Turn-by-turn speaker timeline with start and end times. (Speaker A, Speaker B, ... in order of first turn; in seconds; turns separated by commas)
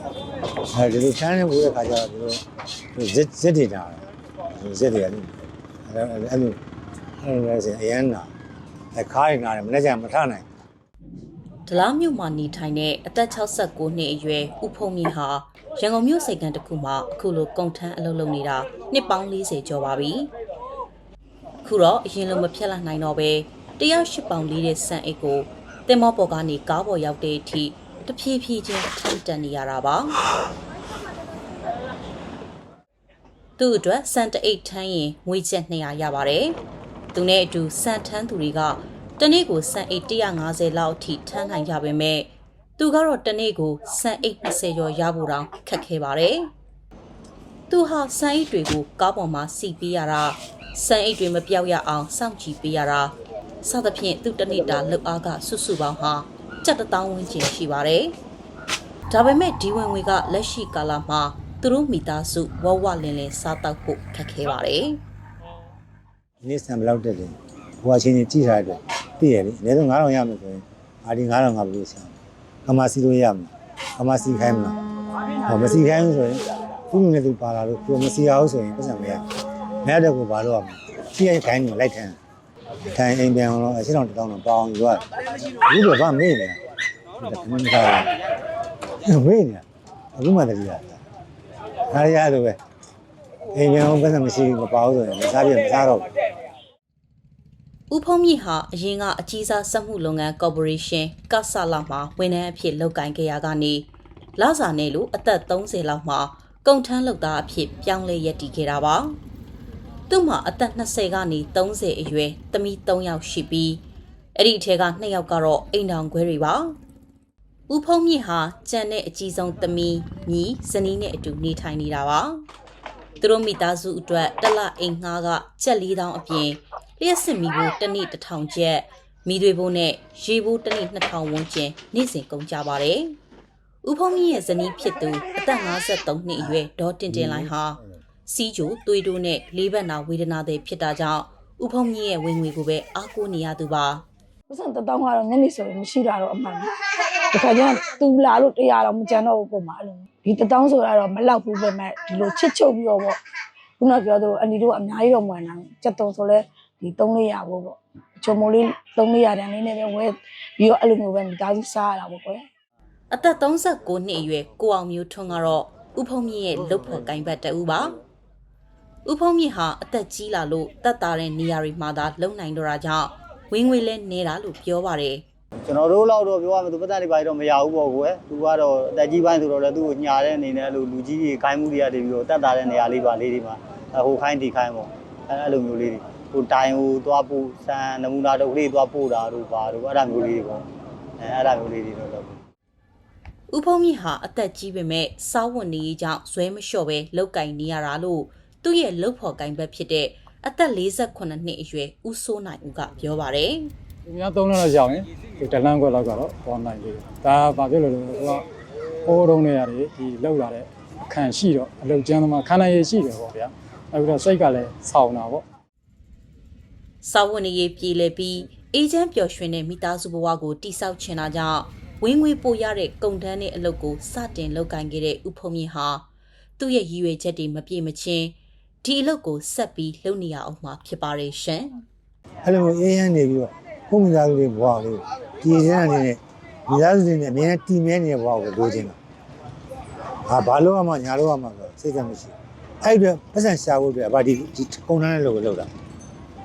Speaker A: 0.7-2.4, Speaker A: 2.9-6.6, Speaker A: 7.2-8.3, Speaker A: 8.9-10.4, Speaker B: 11.7-20.3, Speaker B: 21.6-30.2, Speaker B: 33.6-36.6, Speaker B: 37.1-46.5, Speaker B: 47.7-58.2, Speaker B: 59.1-65.0, Speaker A: 66.4-74.8, Speaker A: 75.4-79.2, Speaker A: 79.8-82.2, Speaker A: 82.9-86.6, Speaker A: 87.2-88.2, Speaker A: 89.0-89.6, Speaker A: 90.2-91.0, Speaker A: 91.9-92.6, Speaker A: 93.5-96.1, Speaker B: 97.9-109.2, Speaker B: 110.1-113.8, Speaker B: 114.3-116.8, Speaker B: 117.7-122.5, Speaker B: 123.2-133.2, Speaker B: 133.8-144.0, Speaker C: 144.5-146.7, Speaker C: 147.3-153.2, Speaker C: 153.8-162.4, Speaker B: 163.1-167.9, Speaker B: 169.1-175.2, Speaker D: 175.7-190.7, Speaker D: 191.2-192.4, Speaker B: 193.5-203.7, Speaker E: 204.1-208.5, Speaker E: 209.1-215.4, Speaker B: 217.0-226.1, Speaker B: 226.6-231.8, Speaker A: 232.4-239.0, Speaker A: 240.3-245.7